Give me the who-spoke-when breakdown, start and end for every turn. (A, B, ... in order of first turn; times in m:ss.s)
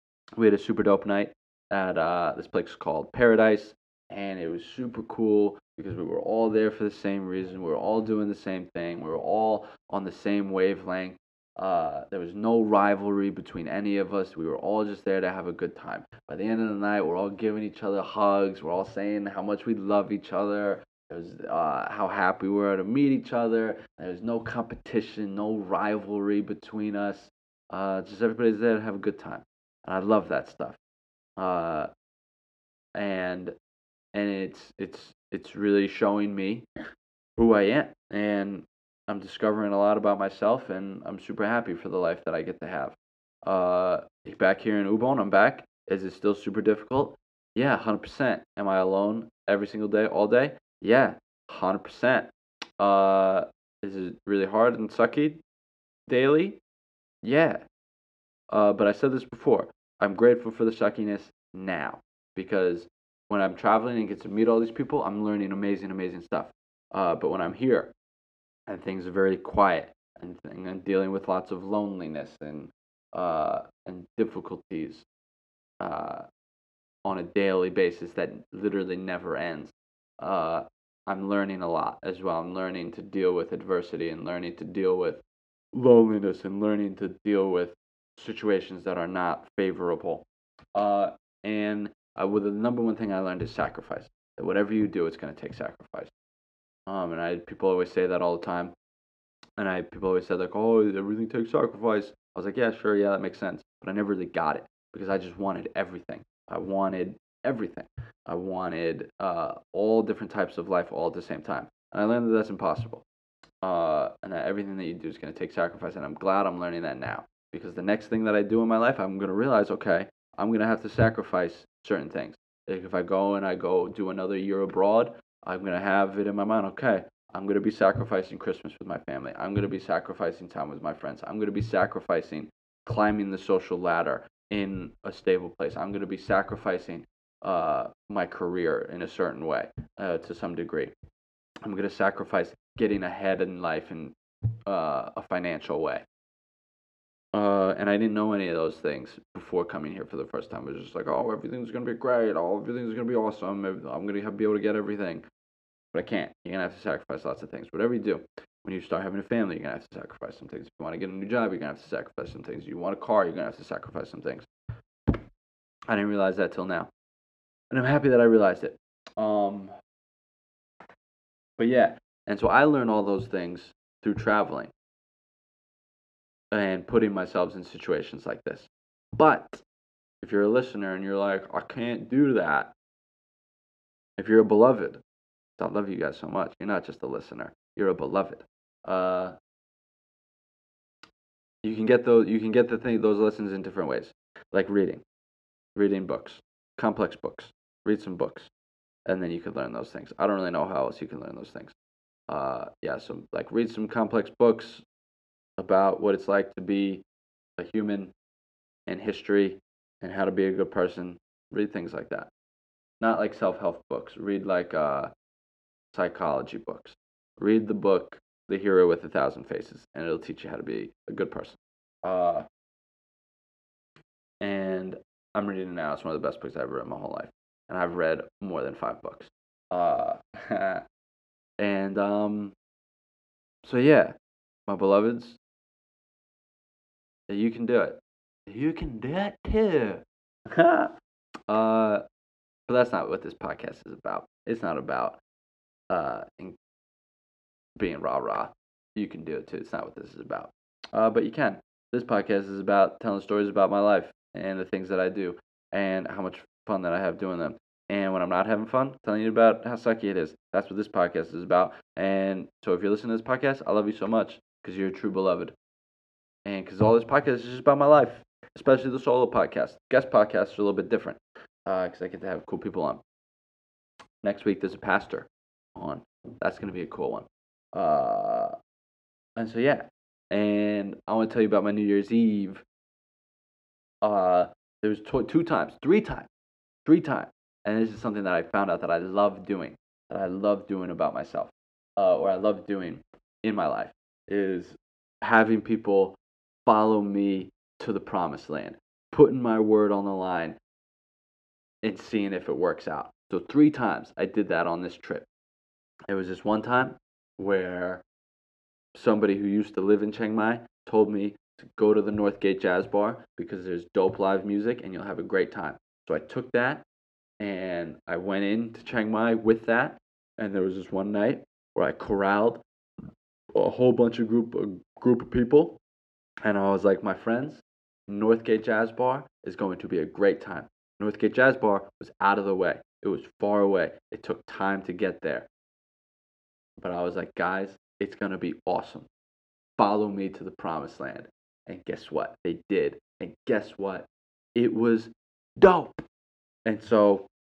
0:00.4-0:30.8 A
0:31.4-0:31.9 A
0:32.9-0:33.5 A
0:34.1-0:36.6 A
0:37.4-0:55.4 A
0:56.1-0:56.6 A
0:57.2-0:57.6 A
0:58.5-1:07.9 A
1:08.7-1:15.0 A
1:15.8-1:16.3 A
1:17.0-1:36.1 A
1:36.9-1:38.7 A
1:39.6-1:53.0 A
1:53.6-2:20.9 A
2:21.6-2:24.2 A
2:24.7-2:26.0 A
2:27.3-2:35.2 A
2:35.9-2:44.5 A
2:45.9-2:46.9 A
2:47.7-2:49.7 A
2:51.6-2:54.7 A
2:56.5-2:59.6 A
3:00.2-3:02.7 A
3:04.2-3:05.0 A
3:05.6-3:09.4 A
3:11.6-3:15.0 A
3:15.7-3:18.5 A
3:19.0-3:21.7 A
3:22.3-3:24.8 A
3:25.6-3:27.0 A
3:27.6-3:28.1 A
3:28.9-3:32.3 A
3:33.0-3:35.1 A
3:35.9-3:42.4 A
3:44.4-3:50.8 A
3:51.6-3:52.5 A
3:53.6-3:54.1 A
3:54.7-3:55.4 A
3:57.3-4:00.9 A
4:01.5-4:02.0 A
4:02.7-4:05.2 A
4:05.9-4:06.6 A
4:07.8-4:25.5 A
4:26.4-4:33.0 A
4:34.2-4:38.6 A
4:39.4-4:42.6 A
4:44.0-4:46.3 A
4:46.8-5:00.6 A
5:01.8-5:05.2 A
5:06.1-5:08.0 A
5:08.9-5:16.8 A
5:17.4-5:22.6 A
5:23.5-5:25.8 A
5:26.4-5:35.5 A
5:36.8-5:39.1 A
5:39.8-5:46.0 A
5:46.6-5:47.3 A